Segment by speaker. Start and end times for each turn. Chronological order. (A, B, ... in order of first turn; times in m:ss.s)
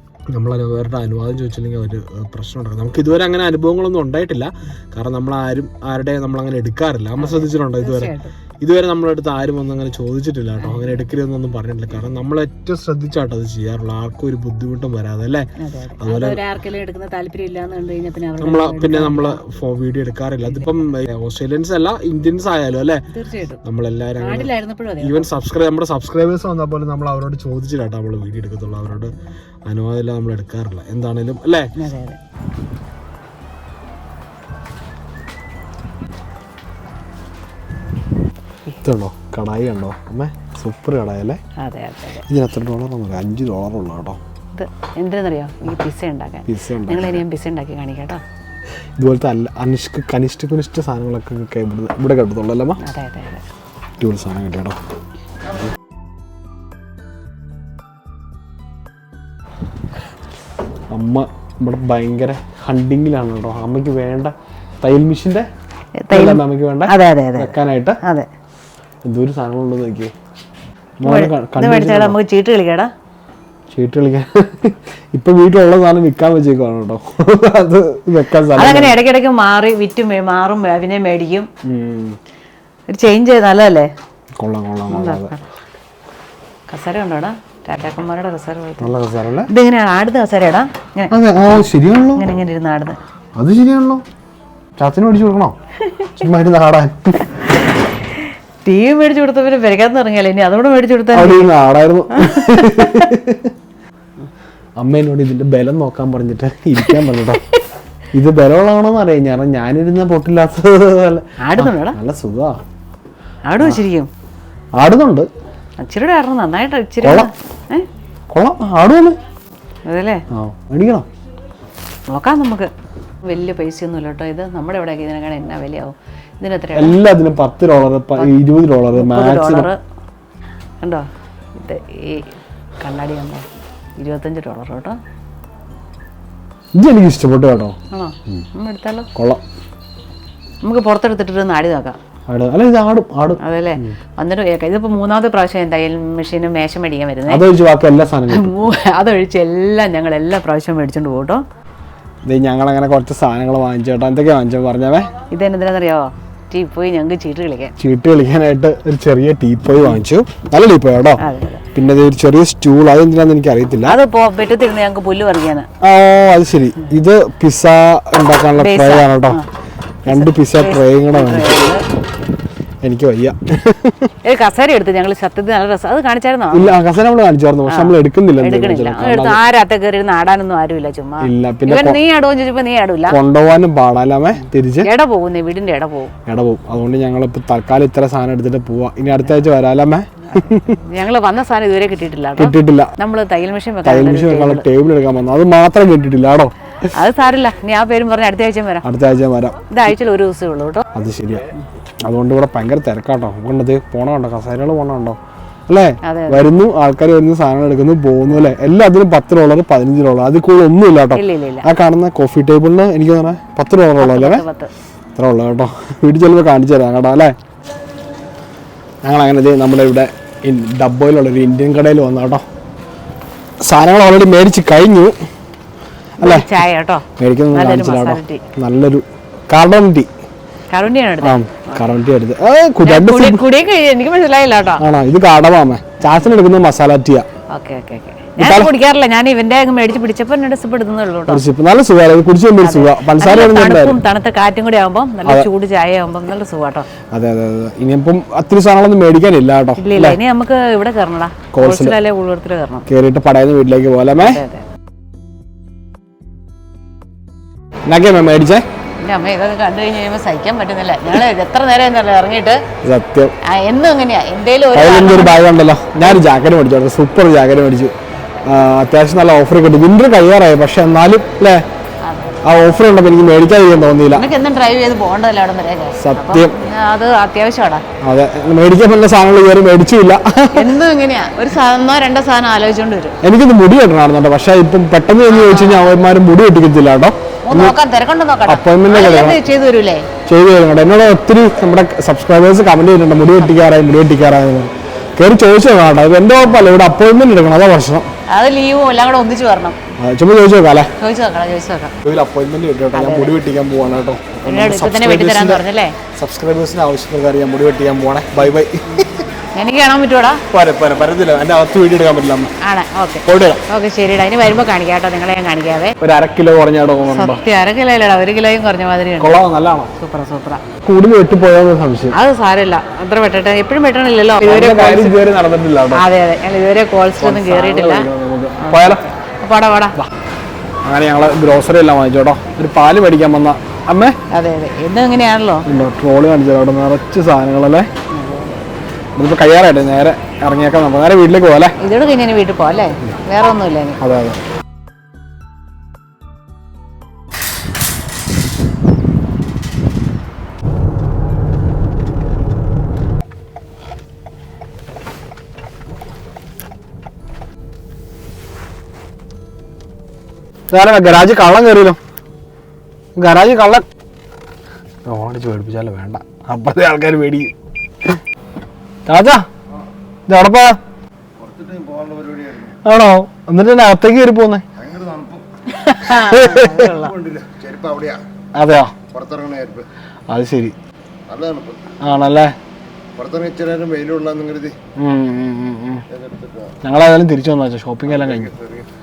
0:00.3-0:15.5 A
0:07.2-0:08.3 B
0:10.6-0:11.0 B
0:15.6-0:19.4 B
0:16.0-0:16.4 A
0:18.4-0:23.0 A
0:20.4-0:20.7 B
0:23.1-0:23.6 B
0:23.6-0:29.1 A
0:24.2-0:25.3 B
0:29.7-0:31.7 A
0:31.8-0:32.2 B
0:38.7-0:41.4 A
0:41.6-0:42.2 B
0:42.3-0:44.2 A
0:44.6-0:48.2 B
0:46.5-0:47.2 A
0:49.0-0:52.8 A
0:52.8-0:53.4 B
0:54.0-0:54.8 A
1:00.9-1:05.5 A
1:06.0-1:08.3 B
1:06.1-1:08.0 A
1:09.0-1:10.1 A
1:11.0-1:12.2 A
1:11.0-1:12.9 B
1:13.7-1:19.0 A
1:18.5-1:21.5 B
1:21.6-1:22.2 A
1:22.9-1:23.9 B
1:24.4-1:25.3 A
1:24.9-1:25.4 B
1:26.7-1:28.9 B
1:28.8-1:29.5 A
1:29.5-1:31.1 B
1:31.1-1:32.2 A
1:32.2-1:33.0 B
1:33.4-1:34.0 A
1:34.8-1:35.6 A
1:36.2-1:37.3 A
1:38.6-1:41.5 B
1:41.1-1:43.5 A
1:42.2-1:43.0 B
1:44.8-1:47.4 A
1:48.1-1:52.6 A
1:51.4-1:52.0 B
1:53.5-1:54.1 B
1:54.8-1:55.3 A
1:55.8-1:57.9 B
1:57.0-1:57.3 A
1:58.3-1:59.2 A
1:59.9-2:00.2 B
2:00.3-2:01.1 A
2:02.1-2:02.7 B
2:03.2-2:07.0 B
2:06.8-2:09.7 A
2:08.9-2:09.8 B
2:10.8-2:13.5 B
2:14.0-2:15.0 B
2:16.8-2:17.8 A
2:17.9-2:19.1 B
2:19.2-2:19.4 A
2:20.6-2:22.0 B
2:22.3-2:24.0 A
2:23.4-2:27.4 B
2:27.3-2:28.5 A
2:28.3-2:31.4 B
2:32.2-2:35.1 A
2:35.3-2:37.7 B
2:37.8-2:41.2 A
2:41.2-2:41.6 B
2:41.7-2:44.0 A
2:43.8-2:45.7 B
2:45.8-2:49.4 A
2:48.6-2:49.4 B
2:50.1-2:51.6 A
2:50.1-2:51.8 B
2:52.8-2:54.1 A
2:54.2-2:56.7 B
2:56.5-2:59.4 A
2:57.7-3:03.2 B
3:01.2-3:02.0 A
3:03.1-3:04.9 A
3:04.8-3:06.1 B
3:06.3-3:10.8 A
3:10.3-3:14.6 B
3:12.4-3:12.9 A
3:13.8-3:16.5 A
3:16.9-3:18.8 B
3:18.8-3:19.6 A
3:19.7-3:20.8 B
3:20.9-3:21.5 A
3:22.1-3:34.4 A
3:26.0-3:26.5 B
3:31.1-3:31.7 B
3:34.0-3:34.7 B
3:35.2-3:37.4 A
3:39.0-3:42.4 A
3:43.6-3:45.1 A
3:46.2-3:46.5 A
3:46.2-3:48.4 B
3:47.2-3:50.1 A
3:50.7-3:51.8 B
3:51.2-3:53.4 A
3:52.8-3:54.8 B
3:54.8-3:57.3 A
3:57.5-4:01.4 B
3:58.4-3:58.7 A
4:01.3-4:04.0 A
4:02.6-4:06.9 B
4:07.1-4:10.2 A
4:09.8-4:12.9 B
4:11.5-4:12.0 A
4:12.9-4:14.4 A
4:14.2-4:14.6 B
4:17.9-4:18.6 A
4:19.0-4:22.6 B
4:22.8-4:23.3 A
4:23.4-4:25.4 B
4:24.7-4:27.9 A
4:28.4-4:31.6 A
4:32.0-4:32.4 B
4:32.4-4:34.3 A
4:34.1-4:37.8 B
4:36.0-4:36.6 A
4:38.0-4:40.8 A
4:40.5-4:43.2 B
4:43.2-4:47.8 A
4:45.3-4:45.9 B
4:47.4-4:50.1 B
4:48.5-4:49.4 A
4:50.3-4:58.1 A
4:58.3-4:59.8 B
5:00.0-5:00.9 A
5:01.0-5:01.9 B
5:02.0-5:05.6 A
5:02.9-5:03.3 B
5:04.4-5:06.0 B
5:06.2-5:09.2 A
5:09.6-5:10.4 B
5:10.5-5:12.5 A
5:12.6-5:15.9 B
5:13.2-5:13.6 A
5:16.0-5:17.4 A
5:17.1-5:19.4 B
5:19.2-5:19.9 A
5:20.0-5:20.6 B
5:20.8-5:22.2 A
5:22.1-5:25.2 B
5:24.4-5:26.0 A
5:25.9-5:28.1 B
5:27.2-5:29.1 A
5:28.6-5:30.0 B
5:30.8-5:34.2 A
5:34.3-5:35.7 B
5:35.7-5:37.9 A
5:38.1-5:38.7 B
5:39.2-5:41.8 A
5:41.8-5:44.0 B
5:44.0-5:44.4 A
6:00.7-6:02.0 A
6:03.2-6:03.8 A
6:05.1-6:07.5 A
6:09.1-6:09.5 A
6:10.3-6:10.8 A
6:11.4-6:12.8 C
6:12.8-6:14.7 A
6:14.8-6:15.4 C
6:15.8-6:17.1 B
6:16.3-6:17.0 A
6:17.0-6:18.2 C
6:18.6-6:18.9 A
6:19.1-6:19.9 C
6:20.3-6:20.8 A
6:21.3-6:21.8 C
6:22.0-6:22.5 A
6:23.2-6:24.8 C
6:25.0-6:26.0 A
6:26.1-6:26.8 C
6:26.8-6:28.5 A
6:28.1-6:28.9 C